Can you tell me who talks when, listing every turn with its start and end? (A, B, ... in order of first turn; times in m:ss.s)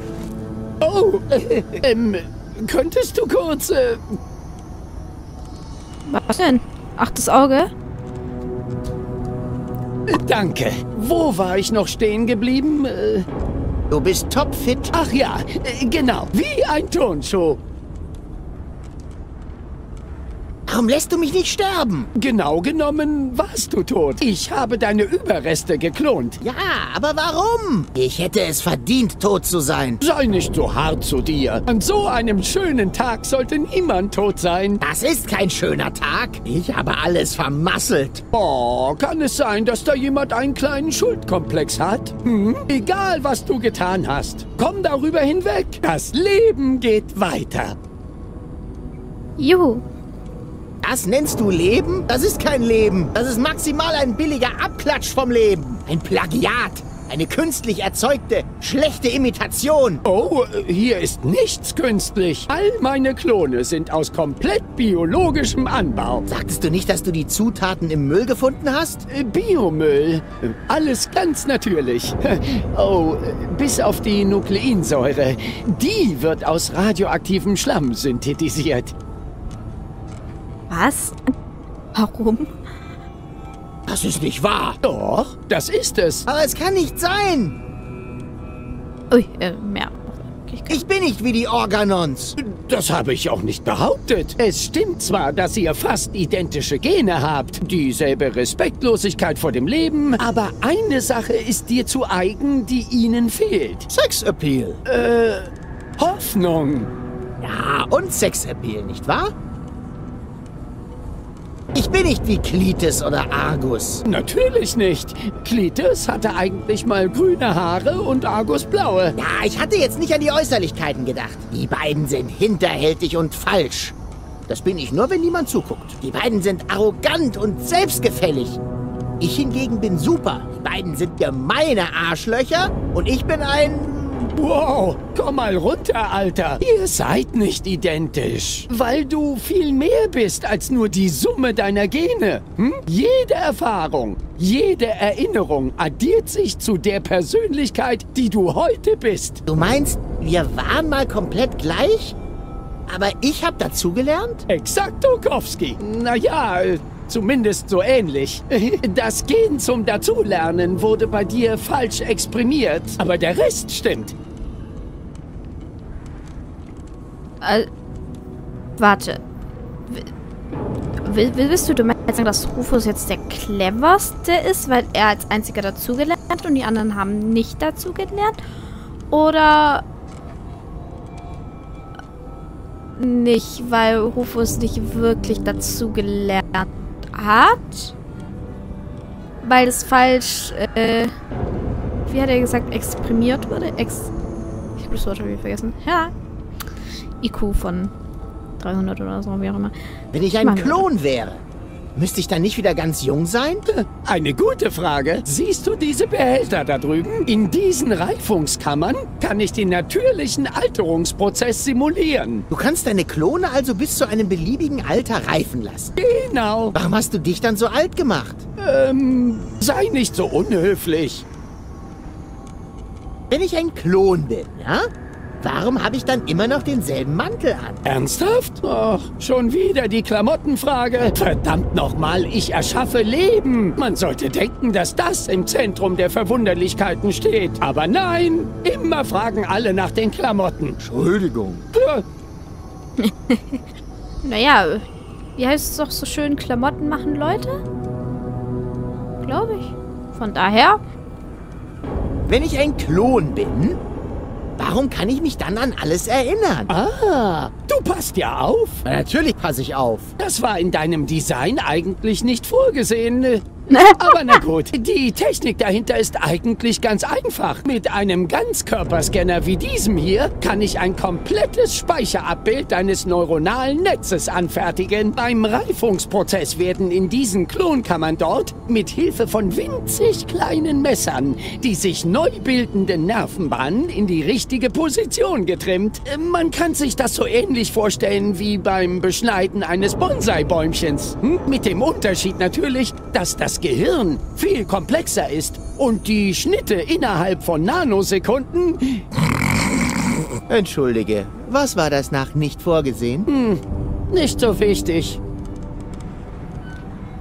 0:00.8-0:04.2 A
0:06.1-0:07.7 B
0:10.1-0:13.2 A
0:13.9-0:14.9 C
0:14.9-0:17.6 A
0:20.7-0:22.1 C
0:22.1-0:26.4 A
0:26.4-0:30.0 C
0:30.0-0:34.8 A
0:34.8-0:38.2 C
0:38.3-0:47.8 A
0:49.4-0:49.8 B
0:50.8-1:00.0 C
1:00.0-1:06.2 A
1:06.2-1:09.0 C
1:09.1-1:18.9 A
1:20.7-1:21.2 B
1:21.9-1:22.5 B
1:23.9-1:24.8 C
1:24.8-1:26.2 A
1:26.2-1:27.6 C
1:29.1-1:30.8 B
1:30.7-1:32.4 C
1:32.4-1:43.9 A
1:43.9-1:44.8 C
1:44.8-1:46.9 A
1:47.4-1:49.3 C
1:51.7-1:54.0 C
1:54.0-1:59.2 A
1:59.2-2:04.0 C
2:04.5-2:08.6 C
2:09.2-2:14.3 C
2:14.4-2:29.4 A
2:29.5-2:32.2 C
2:32.9-2:34.4 C
2:34.5-2:44.1 A
2:47.4-2:47.7 B
2:48.8-2:49.2 B
2:51.0-2:58.4 B
2:59.1-2:59.8 B
3:02.9-3:07.9 B
3:09.4-3:11.1 B
3:12.1-3:14.1 B
3:14.8-3:16.1 B
3:17.2-3:17.9 B
3:18.6-3:19.7 B
3:20.1-3:21.4 C
3:20.4-3:20.9 B
3:22.0-3:23.6 C
3:23.7-3:32.4 A
3:32.5-3:36.0 C
3:36.0-3:36.7 A
3:36.7-3:38.4 C
3:38.6-3:41.2 A
3:43.3-3:44.8 C
3:45.4-3:47.8 C
3:47.8-4:00.8 A
4:00.8-4:01.6 C
4:01.7-4:02.0 A
4:03.0-4:03.6 B
4:04.2-4:04.8 B
4:05.4-4:07.6 B
4:09.2-4:10.8 B
4:12.3-4:13.8 C
4:14.6-4:16.7 C
4:16.7-4:18.8 A
4:18.8-4:20.1 C
4:20.2-4:59.0 A
4:23.7-4:24.4 B
5:00.5-5:03.3 C
5:03.3-5:05.2 A